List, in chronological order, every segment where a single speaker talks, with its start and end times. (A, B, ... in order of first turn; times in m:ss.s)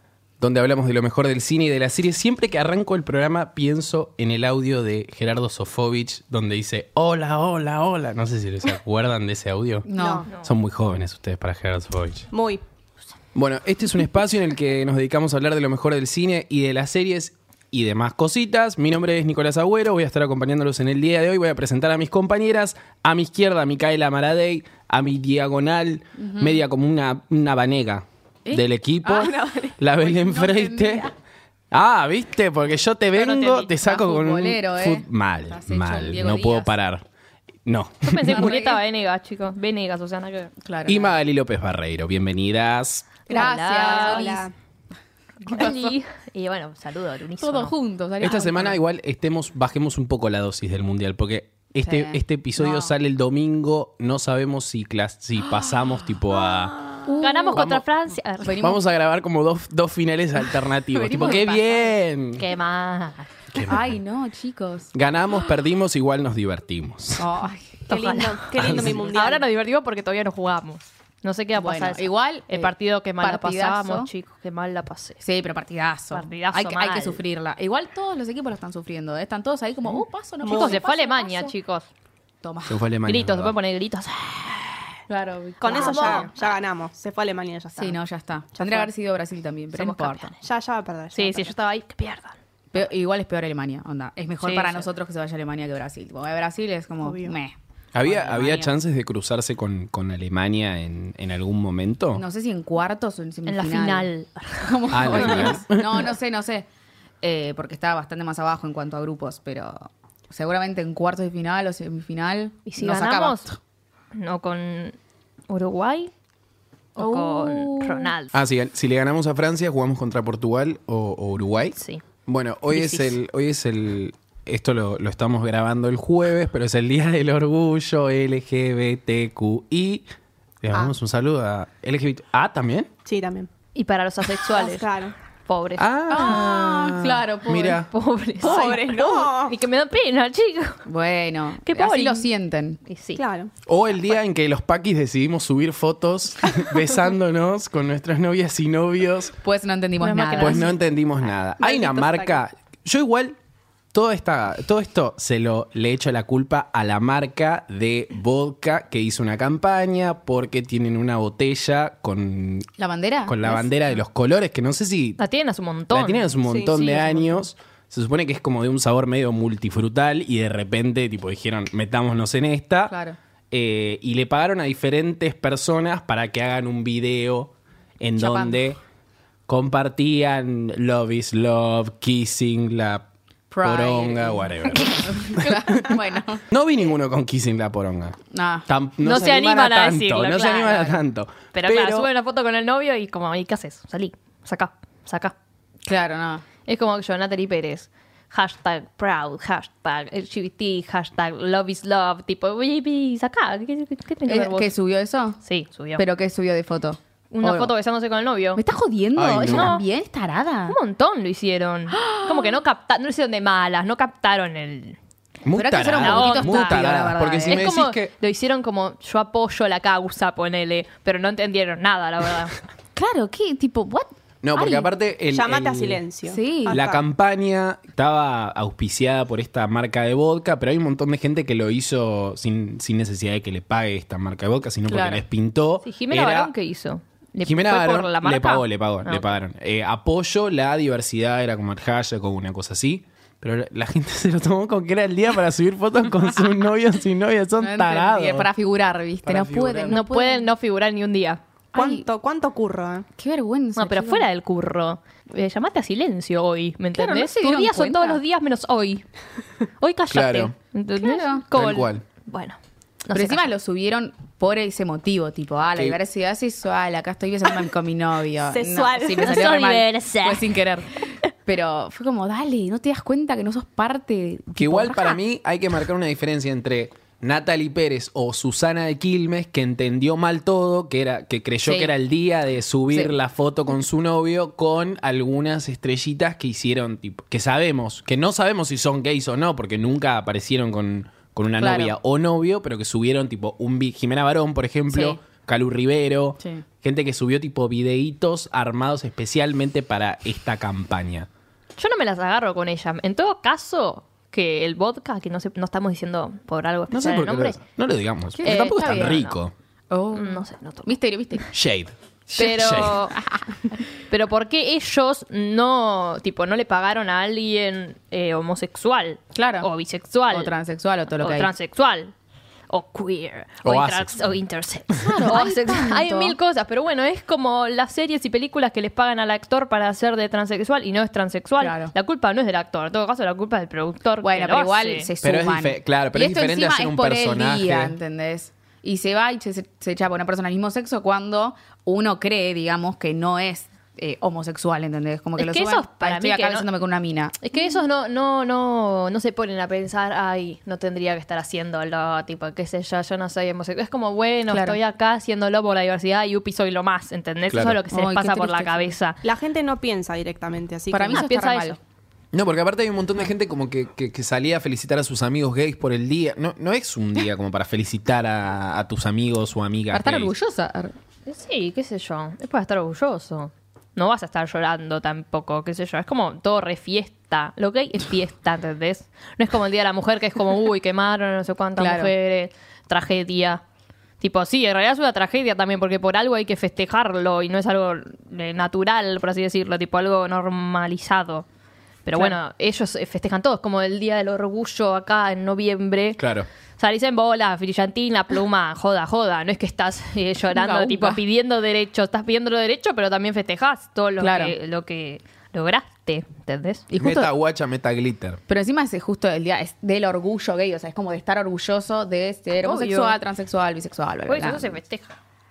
0:00.4-0:12.3 A
0:09.9-0:10.3 B
0:10.0-0:10.3 C
0:12.3-0:12.6 C
0:13.4-0:31.1 A
0:26.2-0:26.6 B
0:29.0-0:29.7 C
0:30.0-0:31.1 B
0:31.7-0:37.0 A
0:33.1-0:33.8 D
0:33.8-0:36.7 B
0:37.7-0:38.6 A
0:38.0-0:40.5 D
0:38.2-0:38.8 B
0:40.6-0:41.2 B
0:40.9-0:43.2 A
0:43.3-0:44.3 D
0:43.3-0:44.5 B
0:43.3-0:44.5 C
0:45.4-0:47.7 D
0:45.5-0:45.8 B
0:47.4-0:48.8 B
0:48.2-0:56.9 A
0:51.8-0:52.9 B
0:57.0-0:57.6 B
0:57.2-0:58.6 D
0:57.6-0:57.8 A
0:58.4-0:58.8 B
0:58.6-1:02.4 A
1:00.9-1:02.0 B
1:02.4-1:03.3 D
1:03.5-1:04.0 A
1:03.6-1:04.9 B
1:04.9-1:07.3 A
1:07.2-1:07.8 B
1:07.9-1:09.5 C
1:07.9-1:15.2 D
1:08.5-1:09.1 A
1:11.6-1:14.1 B
1:15.2-1:21.5 B
1:16.1-1:17.2 D
1:20.4-1:20.8 C
1:20.4-1:21.9 D
1:22.4-1:22.8 B
1:22.7-1:23.5 A
1:23.1-1:25.0 D
1:25.1-1:26.3 B
1:25.6-1:28.0 C
1:25.7-1:26.5 D
1:27.7-1:30.3 B
1:28.6-1:28.9 C
1:29.7-1:30.4 D
1:30.4-1:31.5 C
1:31.1-1:32.4 D
1:32.7-1:38.7 B
1:34.4-1:34.8 D
1:37.0-1:37.4 C
1:37.9-1:42.2 A
1:42.2-1:44.1 B
1:43.5-1:45.5 D
1:44.6-1:46.7 B
1:44.9-1:46.1 A
1:47.2-1:53.6 B
1:52.7-1:53.5 D
1:54.1-1:55.0 D
1:55.5-1:56.1 D
1:57.0-1:58.1 B
1:57.0-1:58.3 D
1:58.3-2:10.0 A
2:01.8-2:02.0 D
2:02.7-2:03.2 D
2:10.6-2:12.9 A
2:13.0-2:13.5 C
2:13.8-2:14.8 D
2:14.4-2:15.2 C
2:15.4-2:16.4 D
2:15.8-2:17.9 A
2:16.1-2:17.8 B
2:17.9-2:20.8 D
2:18.4-2:19.6 C
2:18.4-2:18.8 B
2:20.9-2:22.8 B
2:21.6-2:22.3 D
2:22.9-2:23.2 D
2:23.2-2:23.5 C
2:23.6-2:29.4 A
2:29.4-2:30.7 B
2:30.0-2:30.4 D
2:30.3-2:33.4 A
2:30.3-2:30.7 C
2:31.6-2:32.4 C
2:33.9-2:42.7 A
2:42.8-2:43.7 B
2:43.3-2:45.2 A
2:45.2-2:46.3 D
2:45.9-2:53.0 A
2:46.4-2:46.9 C
2:46.8-2:47.4 D
2:52.9-2:53.2 B
2:53.5-2:58.8 A
2:58.2-2:58.6 B
2:59.5-3:03.1 A
3:03.5-3:06.4 B
3:03.6-3:12.1 A
3:08.3-3:08.7 B
3:09.0-3:11.0 D
3:11.5-3:15.4 D
3:15.8-3:16.4 B
3:16.7-3:24.7 D
3:24.3-3:25.4 B
3:25.4-3:26.0 D
3:26.0-3:27.7 B
3:27.3-3:28.6 D
3:28.6-3:30.8 B
3:29.2-3:29.8 A
3:29.4-3:29.8 D
3:30.7-3:35.0 D
3:31.9-3:32.6 B
3:35.4-3:38.1 A
3:35.6-3:37.7 B
3:36.0-3:36.9 D
3:37.4-3:42.6 D
3:43.0-3:44.9 B
3:44.4-3:46.0 A
3:45.3-3:47.0 C
3:46.3-3:46.8 B
3:46.7-3:56.5 A
3:54.9-3:55.2 B
3:55.8-3:59.2 D
3:57.4-4:08.5 A
4:07.6-4:10.5 B
4:09.2-4:10.0 A
4:09.9-4:11.4 D
4:11.7-4:12.1 B
4:11.7-4:13.1 C
4:13.2-4:14.3 B
4:13.8-4:19.0 D
4:17.0-4:18.2 B
4:19.8-4:23.5 D
4:20.1-4:20.5 A
4:21.0-4:21.4 B
4:21.5-4:22.0 A
4:23.1-4:35.2 B
4:28.5-4:29.4 C
4:29.2-4:30.6 D
4:34.6-5:01.3 A
4:41.6-4:41.9 B
4:51.6-4:52.0 B
4:54.9-4:55.2 B
5:01.8-5:07.6 D
5:06.9-5:09.5 A
5:08.4-5:09.3 B
5:08.4-5:09.4 D
5:09.9-5:11.5 B
5:10.1-5:11.0 D
5:11.5-5:13.0 A
5:12.3-5:13.8 B
5:12.4-5:13.2 D
5:14.1-5:20.5 D
5:19.4-5:19.7 B
5:20.3-5:21.5 B
5:21.2-5:22.1 D
5:22.7-5:35.1 D
5:23.6-5:24.4 A
5:25.0-5:26.4 B
5:31.6-5:31.9 B
5:34.2-5:47.4 B
5:35.2-5:38.0 A
5:45.4-5:46.7 D
5:47.4-5:59.2 D
5:54.5-5:54.8 B
5:57.5-5:57.8 A
5:57.9-5:58.9 B
5:59.2-6:01.2 C
6:00.9-6:01.8 B
6:01.1-6:01.8 D
6:02.3-6:10.3 A
6:09.9-6:11.0 B
6:11.3-6:23.6 D
6:21.8-6:22.1 B
6:24.2-6:31.4 D
6:32.0-6:36.2 D
6:36.2-6:36.5 A
6:36.8-6:46.9 D
6:40.6-6:41.2 B
6:44.2-6:44.5 B
6:46.9-6:47.3 B
6:47.0-6:48.4 A
6:48.5-6:54.8 B
6:52.6-6:53.2 D
6:54.3-6:55.2 D